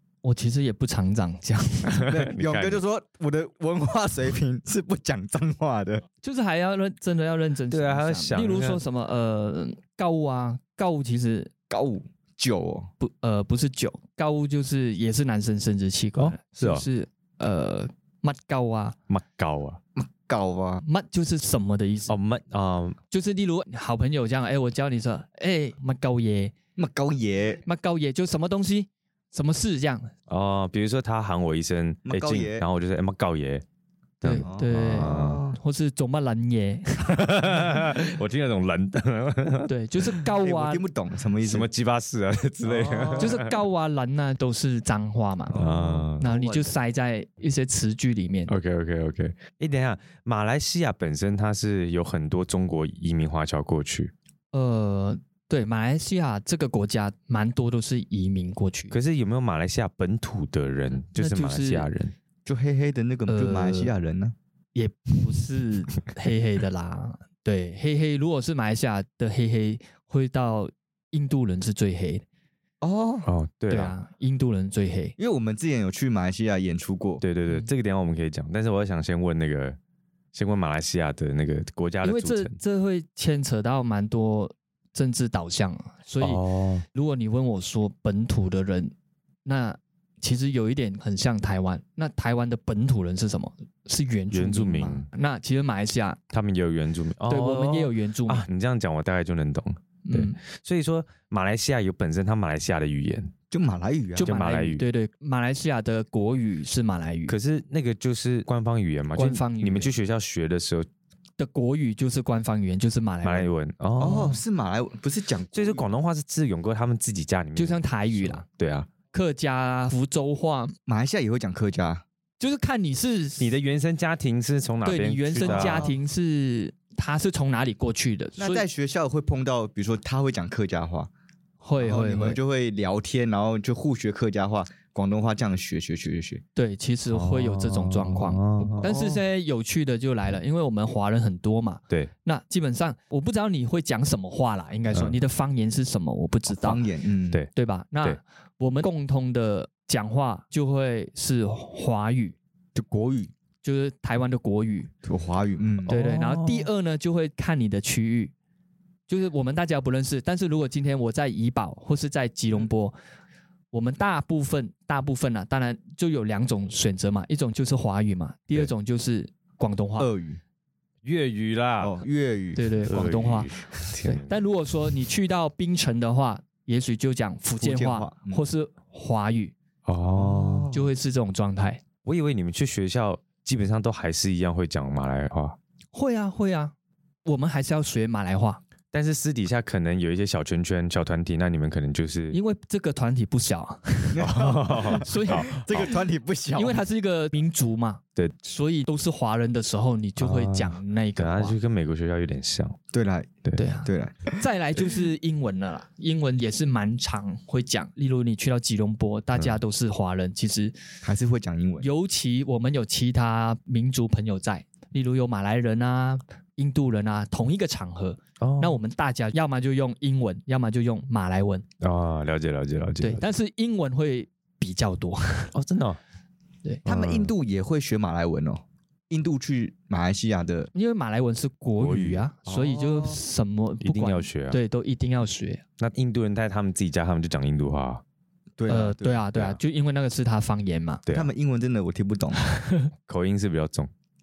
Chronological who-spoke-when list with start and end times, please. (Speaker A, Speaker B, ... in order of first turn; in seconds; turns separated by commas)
Speaker A: 0.2-2.1, Speaker B: 2.0-2.8, Speaker C: 2.1-6.0, Speaker A: 6.2-11.5, Speaker B: 7.7-8.8, Speaker C: 11.7-12.9, Speaker A: 13.0-19.0, Speaker B: 16.2-16.9, Speaker B: 19.1-19.8, Speaker C: 19.9-20.8, Speaker A: 20.8-22.1, Speaker B: 22.1-23.0, Speaker A: 23.1-26.5, Speaker C: 26.8-27.6, Speaker A: 27.6-30.1, Speaker B: 30.3-33.6, Speaker C: 32.1-32.6, Speaker B: 34.2-35.4, Speaker A: 34.2-37.8, Speaker C: 34.4-35.6, Speaker B: 37.1-40.2, Speaker A: 39.7-40.8, Speaker C: 40.4-41.7, Speaker B: 41.4-43.5, Speaker C: 42.6-43.3, Speaker A: 43.2-48.5, Speaker C: 45.5-46.1, Speaker B: 45.5-46.7, Speaker B: 48.5-54.1, Speaker A: 54.5-58.9, Speaker B: 58.9-62.1, Speaker A: 61.1-61.9, Speaker C: 62.4-64.3, Speaker A: 63.3-63.9, Speaker A: 64.7-72.2, Speaker C: 72.8-73.3, Speaker B: 73.2-73.9, Speaker A: 73.7-75.2, Speaker C: 75.2-77.2, Speaker B: 77.2-79.8, Speaker B: 80.3-82.6, Speaker A: 82.0-86.4, Speaker B: 86.2-86.8, Speaker A: 86.9-88.9, Speaker A: 89.4-96.2, Speaker B: 94.3-95.1, Speaker B: 96.3-103.3, Speaker A: 97.3-98.5, Speaker A: 100.0-100.4, Speaker C: 103.5-104.3, Speaker A: 104.2-107.3, Speaker B: 104.2-104.8, Speaker B: 107.3-110.9, Speaker A: 109.2-109.9, Speaker A: 111.4-113.5, Speaker B: 113.2-114.4, Speaker C: 114.0-115.8, Speaker B: 115.5-118.9, Speaker A: 117.6-118.4, Speaker A: 119.1-120.7, Speaker C: 120.9-122.0, Speaker A: 122.4-123.5, Speaker B: 123.4-125.9, Speaker A: 124.8-128.6, Speaker C: 125.4-125.9, Speaker C: 128.4-131.1, Speaker A: 131.6-132.4, Speaker C: 131.8-136.4, Speaker A: 136.6-146.8, Speaker B: 137.1-138.9, Speaker C: 138.8-139.2, Speaker C: 146.5-147.4, Speaker A: 147.5-152.4, Speaker C: 152.8-153.3, Speaker A: 153.6-154.9, Speaker C: 155.0-155.9, Speaker A: 155.9-158.3, Speaker B: 155.9-156.7, Speaker A: 159.1-163.0, Speaker A: 163.7-170.1, Speaker C: 170.0-170.4, Speaker B: 171.0-172.0, Speaker C: 171.8-172.8, Speaker A: 172.5-173.5, Speaker B: 172.9-174.3, Speaker A: 174.0-179.5, Speaker C: 177.6-178.4, Speaker B: 179.8-180.7, Speaker C: 180.1-180.9, Speaker A: 180.7-181.8, Speaker B: 182.0-185.6, Speaker A: 185.9-186.7, Speaker A: 187.2-188.6, Speaker B: 188.9-192.4, Speaker A: 192.3-194.2, Speaker C: 194.1-196.8, Speaker B: 194.2-195.9, Speaker A: 194.8-195.8, Speaker A: 196.5-201.6, Speaker B: 200.2-202.8, Speaker C: 202.9-203.3, Speaker A: 203.6-210.8, Speaker C: 203.8-204.4, Speaker C: 211.0-211.9, Speaker A: 211.8-221.7, Speaker B: 218.4-218.8, Speaker B: 221.8-223.2, Speaker A: 223.0-225.5, Speaker B: 225.5-226.0, Speaker B: 226.8-227.3, Speaker C: 226.9-230.7, Speaker A: 230.7-235.6, Speaker B: 231.8-232.2, Speaker C: 232.5-233.2, Speaker B: 233.8-234.6, Speaker B: 235.8-238.0, Speaker C: 238.6-239.2, Speaker A: 238.7-241.0, Speaker C: 241.1-242.4, Speaker A: 242.4-242.9, Speaker B: 243.1-243.9